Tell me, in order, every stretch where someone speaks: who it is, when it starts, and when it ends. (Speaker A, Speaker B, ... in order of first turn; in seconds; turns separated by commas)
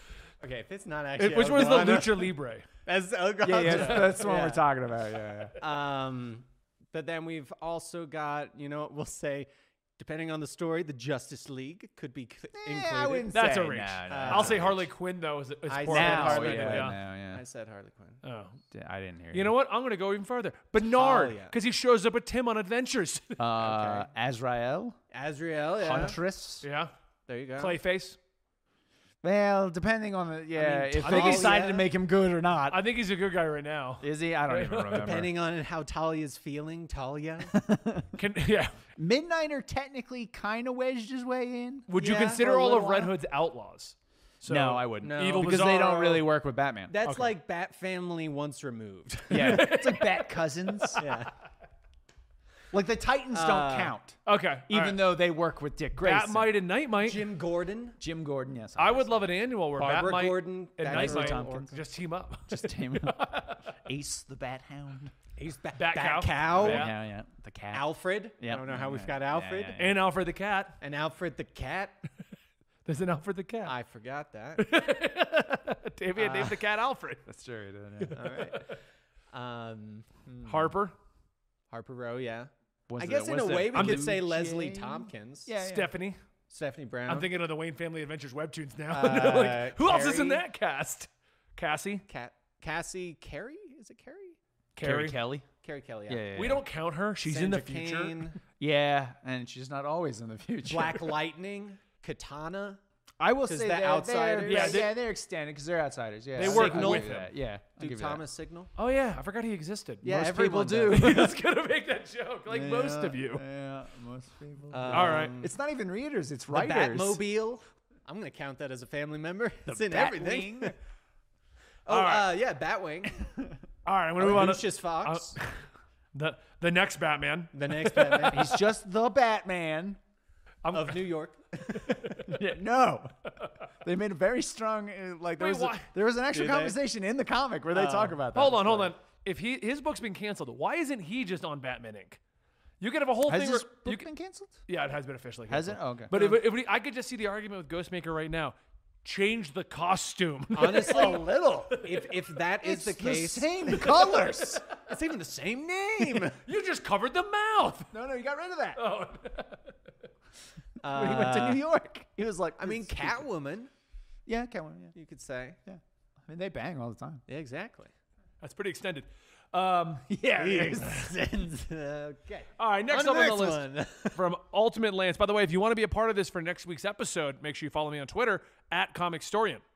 Speaker A: 0.4-4.7, Speaker B: 1.2-2.7, Speaker C: 3.4-5.5, Speaker B: 3.7-4.1, Speaker A: 5.6-13.3, Speaker C: 12.5-14.9, Speaker B: 13.3-16.9, Speaker A: 14.1-14.7, Speaker A: 15.7-18.2, Speaker C: 15.9-17.4, Speaker B: 18.2-18.6, Speaker C: 18.7-19.5, Speaker B: 19.3-23.4, Speaker A: 20.8-21.5, Speaker C: 23.4-25.0, Speaker A: 23.6-24.1, Speaker A: 25.1-26.2, Speaker C: 25.8-26.6, Speaker B: 26.6-26.9, Speaker A: 27.3-27.8, Speaker B: 27.6-28.2, Speaker C: 29.2-32.8, Speaker A: 30.6-31.9, Speaker B: 31.0-31.6, Speaker B: 32.7-35.1, Speaker C: 34.0-35.3, Speaker A: 35.0-37.5, Speaker C: 37.5-38.2, Speaker B: 38.2-38.8, Speaker C: 39.0-41.9, Speaker B: 41.9-46.2, Speaker A: 42.0-43.1, Speaker C: 44.5-47.0, Speaker A: 45.0-46.2, Speaker A: 46.9-49.7, Speaker B: 47.0-47.3, Speaker C: 49.3-51.0, Speaker B: 49.3-51.0, Speaker A: 51.0-51.3, Speaker C: 52.7-54.2, Speaker A: 53.3-54.0, Speaker B: 54.2-55.0, Speaker C: 54.7-56.5, Speaker B: 56.0-57.3, Speaker A: 57.0-58.0, Speaker C: 58.0-59.3, Speaker B: 58.8-63.8, Speaker A: 59.8-61.8, Speaker C: 60.9-61.8, Speaker C: 62.5-65.1, Speaker A: 65.3-66.9, Speaker B: 65.7-66.9, Speaker C: 66.5-67.9, Speaker A: 67.7-69.8, Speaker C: 68.4-70.0, Speaker B: 69.8-70.8, Speaker A: 70.8-72.0, Speaker B: 72.8-73.7, Speaker A: 73.6-74.7, Speaker B: 74.6-77.2, Speaker A: 76.2-76.7, Speaker C: 77.2-78.4, Speaker B: 78.0-78.8, Speaker A: 78.1-78.7, Speaker A: 79.3-80.7, Speaker B: 80.4-81.0, Speaker A: 81.7-85.5, Speaker C: 82.9-85.9, Speaker B: 83.7-84.1, Speaker B: 85.6-86.2, Speaker A: 86.5-87.3, Speaker B: 87.1-92.0, Speaker A: 88.9-90.4, Speaker A: 92.1-94.4, Speaker B: 94.8-95.2, Speaker C: 94.8-95.5, Speaker A: 95.6-96.3, Speaker C: 96.1-96.6, Speaker B: 96.3-98.3, Speaker A: 97.2-98.4, Speaker C: 98.6-101.2, Speaker A: 100.7-102.8, Speaker C: 103.2-108.2, Speaker A: 103.5-104.9, Speaker B: 104.4-105.0, Speaker B: 106.3-107.3, Speaker A: 106.4-108.7, Speaker B: 108.8-110.2, Speaker C: 110.0-111.4, Speaker A: 110.0-111.3, Speaker B: 110.8-113.4, Speaker C: 112.5-117.2, Speaker A: 114.7-115.5, Speaker B: 114.9-115.3, Speaker A: 116.5-120.7, Speaker C: 119.7-120.7, Speaker A: 121.8-123.3, Speaker B: 121.9-122.3, Speaker B: 123.8-125.6, Speaker A: 124.2-125.4, Speaker B: 126.1-128.5, Speaker A: 127.5-128.6, Speaker C: 128.3-130.0, Speaker B: 130.6-131.0, Speaker A: 130.7-132.2, Speaker B: 131.8-132.3, Speaker C: 132.1-138.9, Speaker B: 135.4-135.9, Speaker A: 136.3-136.8, Speaker B: 137.7-142.2, Speaker B: 142.8-144.1, Speaker C: 143.2-144.6, Speaker B: 144.7-152.1, Speaker C: 145.5-146.1, Speaker A: 146.1-146.4, Speaker A: 150.5-154.2, Speaker C: 150.8-151.8, Speaker C: 152.6-154.6, Speaker A: 154.7-156.4, Speaker B: 156.2-157.9, Speaker C: 157.9-158.8, Speaker B: 158.8-159.7, Speaker A: 160.8-161.6, Speaker C: 160.8-163.2, Speaker A: 162.6-163.7, Speaker C: 164.2-164.9, Speaker A: 164.9-165.6, Speaker C: 165.7-167.2, Speaker A: 167.3-167.9, Speaker B: 168.4-170.1, Speaker C: 170.1-171.1, Speaker A: 170.3-174.2, Speaker B: 172.6-179.6